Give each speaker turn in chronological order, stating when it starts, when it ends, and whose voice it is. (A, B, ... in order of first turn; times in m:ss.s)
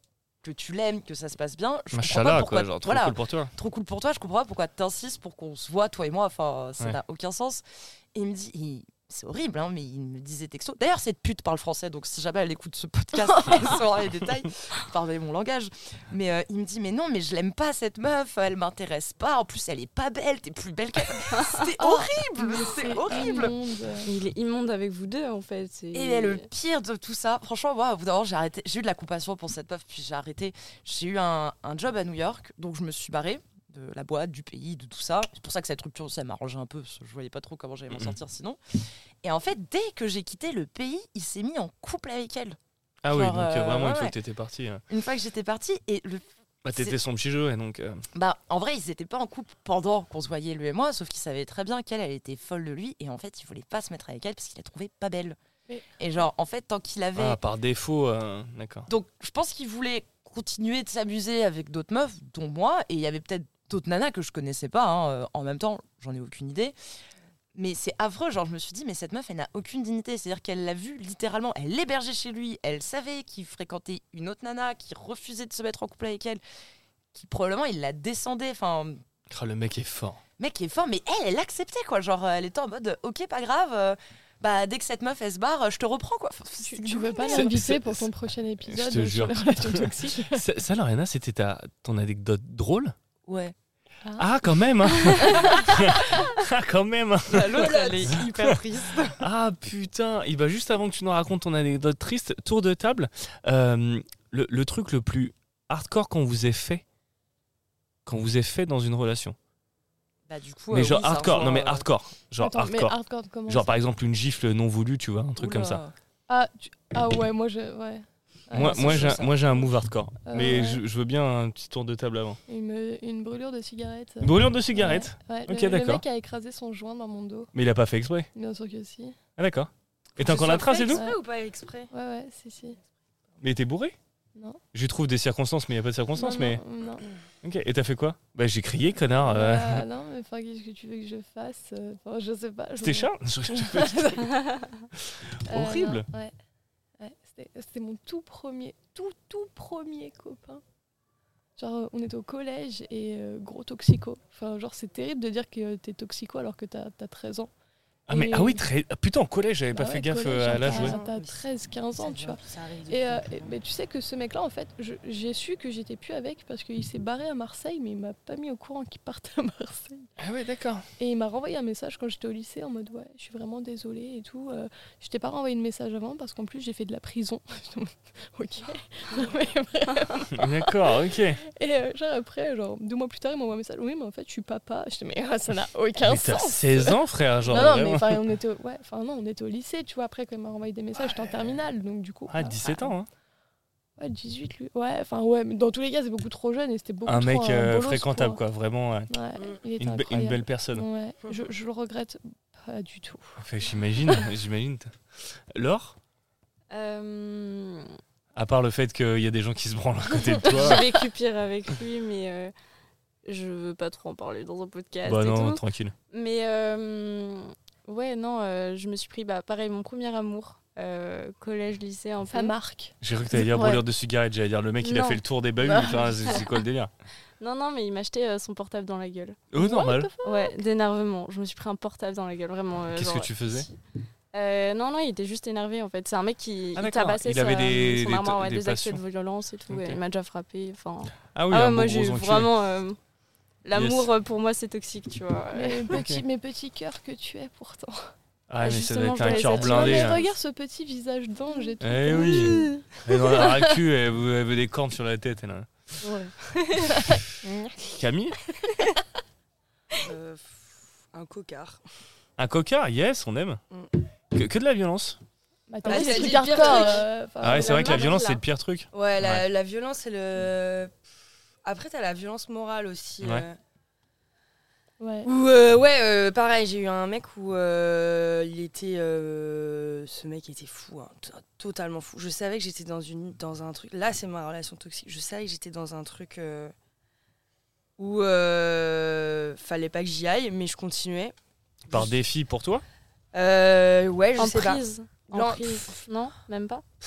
0:00.4-0:07.6 A
0:01.9-0:03.5 B
0:08.1-0:23.5 A
0:21.3-0:21.6 C
0:21.8-0:24.1 D
0:24.0-0:26.4 C
0:25.9-0:42.6 A
0:37.9-0:38.2 B
0:43.0-0:44.8 B
0:43.1-0:44.1 A
0:44.9-0:47.0 A
0:46.6-0:48.0 B
0:48.1-0:55.4 A
0:56.0-0:57.4 A
0:57.2-0:58.9 B
0:58.9-1:06.7 A
1:07.5-1:16.4 A
1:17.1-1:19.0 A
1:19.3-1:20.2 B
1:20.4-1:27.7 A
1:26.6-1:30.4 D
1:27.3-1:28.0 B
1:28.6-1:32.9 B
1:33.3-1:33.5 A
1:34.0-1:34.3 D
1:34.2-1:38.5 B
1:35.6-1:35.9 A
1:37.3-1:39.2 A
1:37.5-1:38.2 E
1:39.2-1:46.8 B
1:48.0-1:49.4 B
1:50.3-1:51.8 A
1:50.7-1:52.9 B
1:52.4-1:53.7 D
1:53.4-1:55.8 B
1:55.4-1:55.9 A
1:56.3-1:59.6 D
1:58.5-2:02.4 B
1:58.6-1:59.3 A
2:00.2-2:00.8 D
2:02.5-2:07.5 D
2:04.2-2:06.0 B
2:07.5-2:08.3 B
2:08.3-2:09.2 D
2:09.4-2:11.0 B
2:10.2-2:11.9 E
2:10.9-2:11.2 D
2:11.9-2:12.8 D
2:13.4-2:14.0 B
2:14.7-2:16.6 B
2:16.2-2:17.1 D
2:17.4-2:19.8 B
2:19.2-2:24.3 D
2:22.8-2:24.3 B
2:25.1-2:26.0 B
2:25.5-2:26.3 D
2:27.0-2:30.6 D
2:31.6-2:37.5 D
2:38.1-2:38.6 D
2:38.1-2:41.0 B
2:39.7-2:50.1 D
2:40.6-2:41.4 E
2:42.0-2:43.5 E
2:50.2-2:50.8 B
2:51.0-3:00.7 D
3:00.3-3:01.4 B
3:01.4-3:12.9 D
3:06.0-3:08.2 B
3:12.3-3:13.1 B
3:14.0-3:18.4 D
3:17.0-3:19.1 B
3:19.1-3:23.4 D
3:19.8-3:20.8 B
3:23.4-3:25.0 B
3:25.5-3:26.0 B
3:26.7-3:27.9 C
3:28.3-3:30.9 B
3:30.4-3:32.5 C
3:33.2-3:42.5 C
3:35.0-3:35.9 B
3:42.3-3:43.8 D
3:43.0-3:46.9 B
3:44.8-3:45.2 C
3:45.7-3:46.4 D
3:45.7-3:46.4 C
3:47.4-3:49.5 C
3:49.5-3:50.1 B
3:49.6-3:50.6 D
3:50.2-3:53.6 C
3:52.9-3:53.7 B
3:54.3-4:03.0 C
3:56.7-3:59.0 B
3:59.7-4:00.0 B
4:01.3-4:02.5 B
4:03.6-4:06.0 C
4:03.7-4:04.1 B
4:05.5-4:08.1 D
4:05.9-4:06.2 B
4:08.5-4:10.2 B
4:08.6-4:10.3 C
4:09.2-4:12.7 D
4:11.8-4:15.7 B
4:12.1-4:12.7 C
4:16.0-4:17.2 C
4:17.1-4:17.7 D
4:18.0-4:18.4 B
4:20.0-4:21.8 E
4:22.4-4:23.6 B
4:24.3-4:25.2 B
4:25.7-4:28.2 D
4:25.8-4:27.1 E
4:25.9-4:28.4 C
4:27.4-4:29.4 B
4:28.9-4:30.9 E
4:31.6-4:33.6 E
4:35.0-4:35.3 D
4:35.2-4:46.7 E
4:48.0-4:51.3 E
4:51.9-4:52.8 B
4:53.3-4:56.0 E
4:54.4-4:56.8 C